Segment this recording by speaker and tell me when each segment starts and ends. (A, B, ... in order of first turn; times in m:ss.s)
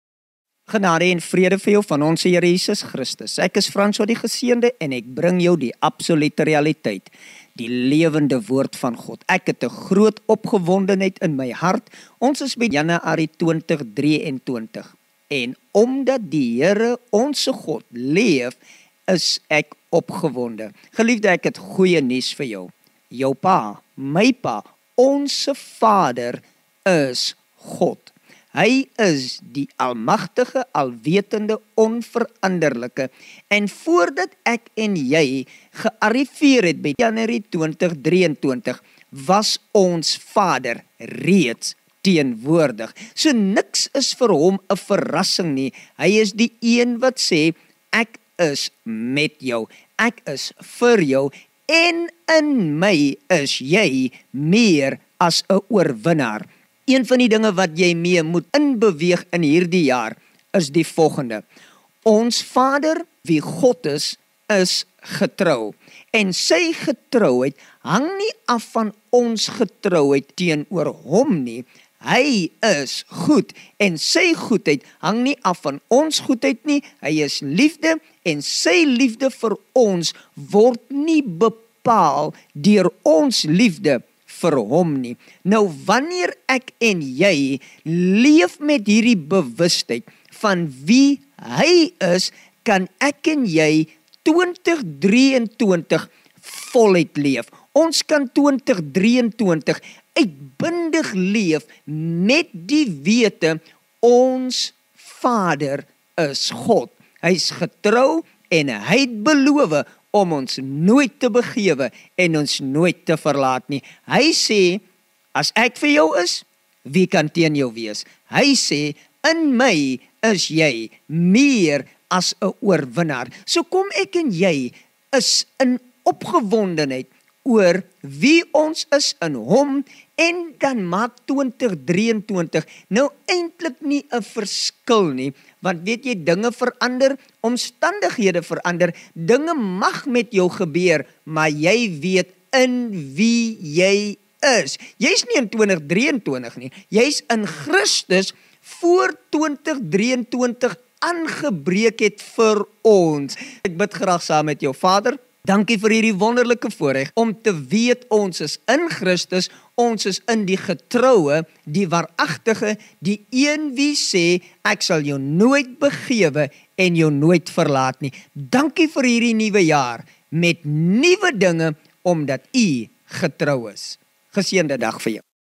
0:00.7-1:01.4 A
1:02.0-1:54.8 A
1:55.3-2:55.2 A